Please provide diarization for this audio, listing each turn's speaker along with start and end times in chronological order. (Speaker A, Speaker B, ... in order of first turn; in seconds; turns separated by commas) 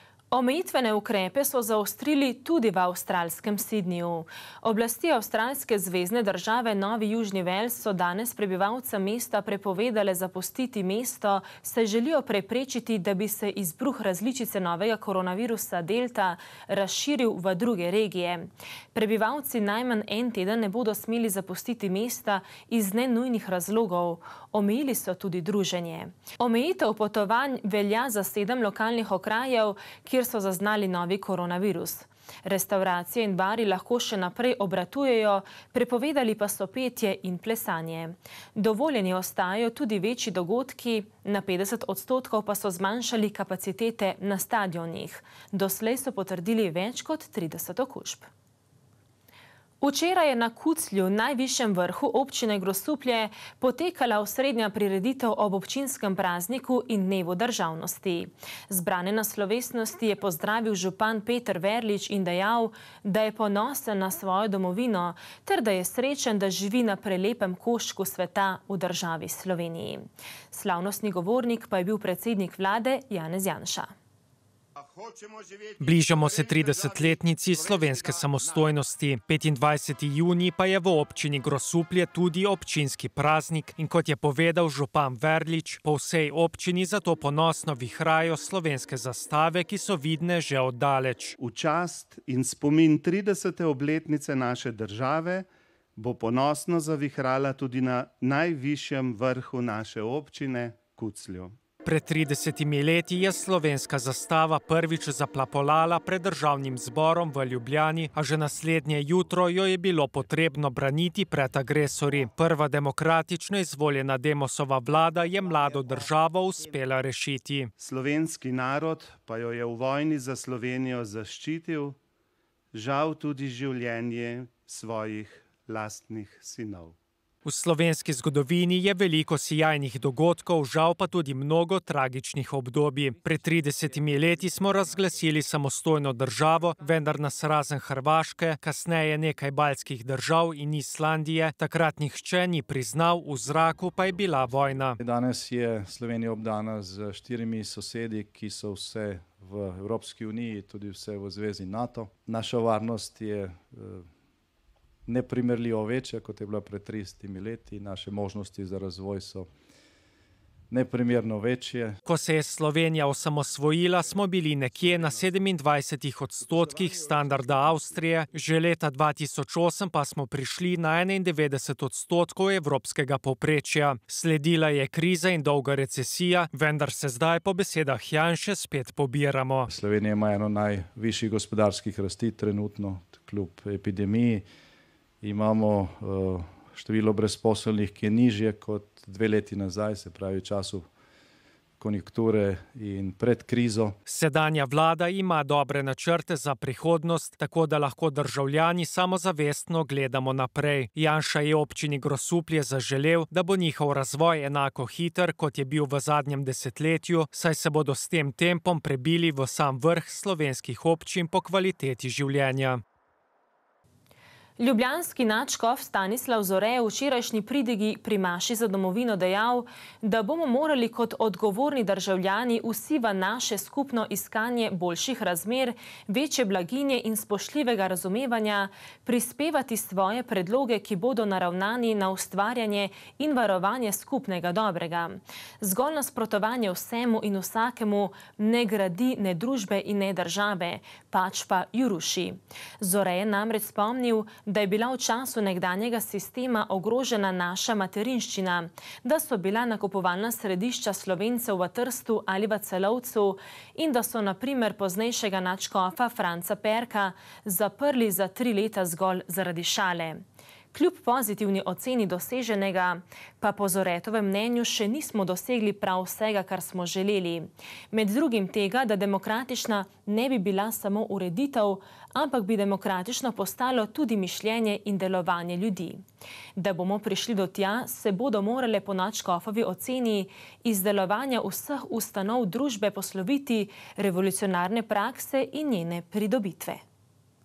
Speaker A: 0.3-48.3, Speaker A: 49.8-73.9, Speaker B: 75.8-91.3, Speaker C: 91.4-101.5, Speaker B: 101.8-117.7, Speaker C: 117.8-122.0, Speaker C: 122.7-127.0, Speaker B: 127.4-145.0, Speaker D: 145.0-154.1, Speaker D: 155.1-159.5, Speaker D: 160.7-162.0, Speaker B: 162.0-179.7, Speaker D: 179.7-184.4, Speaker D: 185.2-190.8, Speaker D: 191.8-193.9, Speaker B: 194.1-212.8, Speaker A: 214.6-260.2, Speaker A: 260.7-276.0, Speaker A: 276.6-286.8